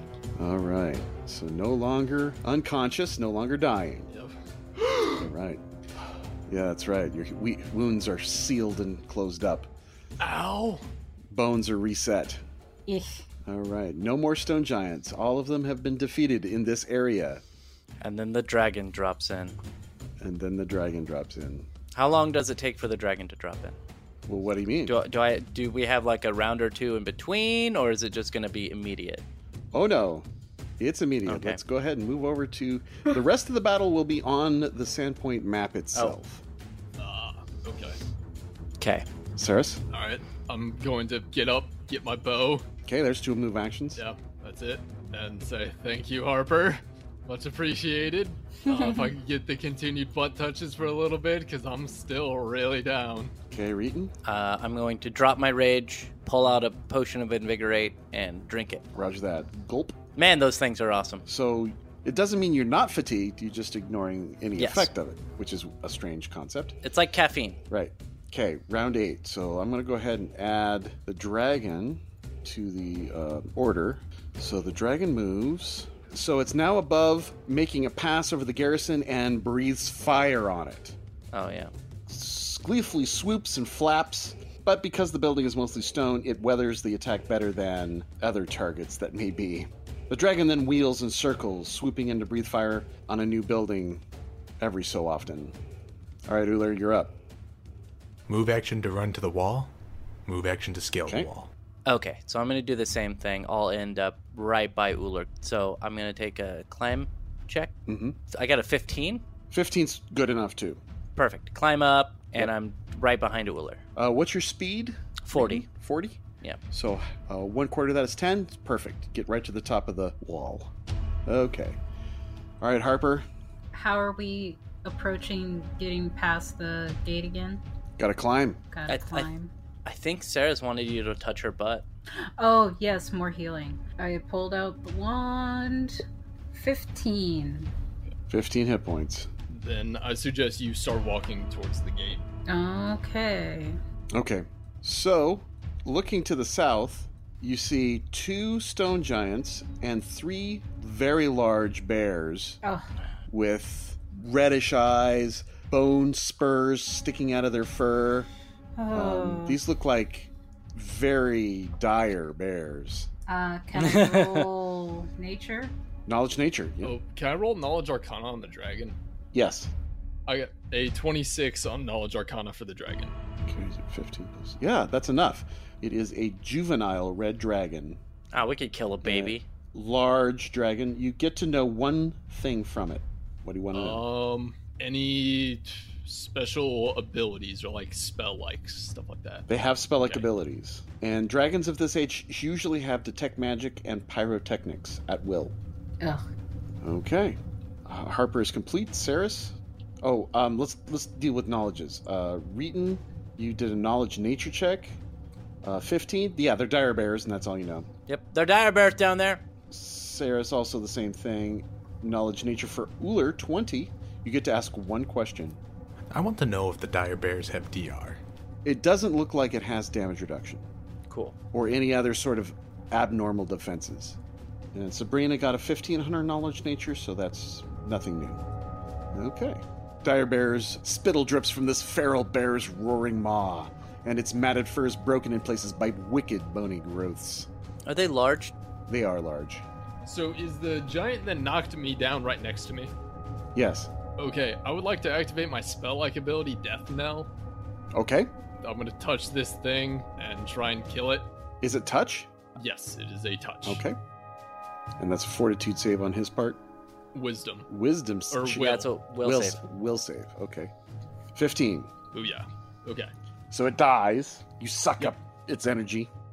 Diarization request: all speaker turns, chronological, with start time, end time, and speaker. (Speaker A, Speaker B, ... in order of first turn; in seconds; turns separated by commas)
Speaker A: 0.4-4.1, Speaker B: 4.1-5.3, Speaker A: 5.2-5.6, Speaker A: 6.5-9.7, Speaker B: 10.2-10.8, Speaker A: 11.3-12.4, Speaker C: 12.9-13.2, Speaker A: 13.4-17.4, Speaker D: 18.0-19.6, Speaker A: 20.2-21.7, Speaker D: 21.9-23.8, Speaker A: 24.2-25.0, Speaker D: 24.9-29.2, Speaker A: 29.7-30.3, Speaker A: 30.8-36.4, Speaker D: 31.2-31.6, Speaker B: 37.0-38.0, Speaker D: 38.8-39.0, Speaker A: 39.4-39.8, Speaker B: 39.9-42.6, Speaker A: 42.8-44.0, Speaker B: 44.0-53.3, Speaker C: 48.7-49.1, Speaker A: 53.5-54.1, Speaker D: 54.2-58.8, Speaker A: 58.9-60.0, Speaker D: 60.1-61.2, Speaker A: 61.2-66.8, Speaker D: 64.6-64.9, Speaker D: 66.8-67.6, Speaker A: 67.7-81.0, Speaker D: 81.3-81.7, Speaker A: 82.1-94.0, Speaker A: 94.6-95.5, Speaker A: 96.3-97.1, Speaker E: 98.3-99.7, Speaker E: 100.2-101.5, Speaker D: 101.8-107.8, Speaker A: 107.9-108.2, Speaker D: 108.3-109.2, Speaker A: 109.5-110.8, Speaker D: 111.2-113.8, Speaker A: 114.0-116.2, Speaker D: 115.2-115.7, Speaker A: 116.7-120.7, Speaker A: 121.2-121.8, Speaker A: 122.6-123.2, Speaker C: 123.7-127.6, Speaker A: 128.0-128.6, Speaker C: 128.7-129.5, Speaker D: 128.9-129.3, Speaker D: 129.8-131.8, Speaker C: 132.4-136.0, Speaker C: 136.5-137.7, Speaker A: 138.3-139.3, Speaker B: 139.5-142.2, Speaker C: 142.5-143.8, Speaker A: 144.1-152.6, Speaker C: 152.6-152.9, Speaker A: 153.3-158.3, Speaker C: 158.8-159.6, Speaker A: 158.9-163.1, Speaker C: 163.3-165.7, Speaker D: 163.7-164.4, Speaker A: 166.1-166.9, Speaker B: 166.8-168.9, Speaker A: 169.3-169.7, Speaker B: 170.3-173.1, Speaker A: 173.4-178.0, Speaker D: 178.3-179.4, Speaker A: 179.0-184.0, Speaker B: 183.7-189.4, Speaker A: 189.5-195.5, Speaker A: 196.8-205.0, Speaker A: 205.6-207.9, Speaker D: 208.1-209.4, Speaker A: 209.7-215.6, Speaker E: 216.1-218.2, Speaker A: 218.6-220.7, Speaker D: 221.1-221.3, Speaker A: 221.5-224.2, Speaker A: 224.7-228.4, Speaker A: 229.1-237.5, Speaker D: 237.8-238.5, Speaker A: 238.9-239.6, Speaker B: 240.0-242.9, Speaker A: 243.5-243.9, Speaker B: 244.2-247.3, Speaker A: 247.9-248.3, Speaker B: 248.6-251.3, Speaker A: 251.6-252.3, Speaker B: 252.6-253.8, Speaker A: 253.6-254.0, Speaker A: 255.0-256.6, Speaker B: 257.1-257.7, Speaker A: 257.7-260.7, Speaker B: 258.3-258.9, Speaker D: 258.5-259.6, Speaker A: 261.3-261.9, Speaker B: 262.1-263.1, Speaker A: 263.5-266.1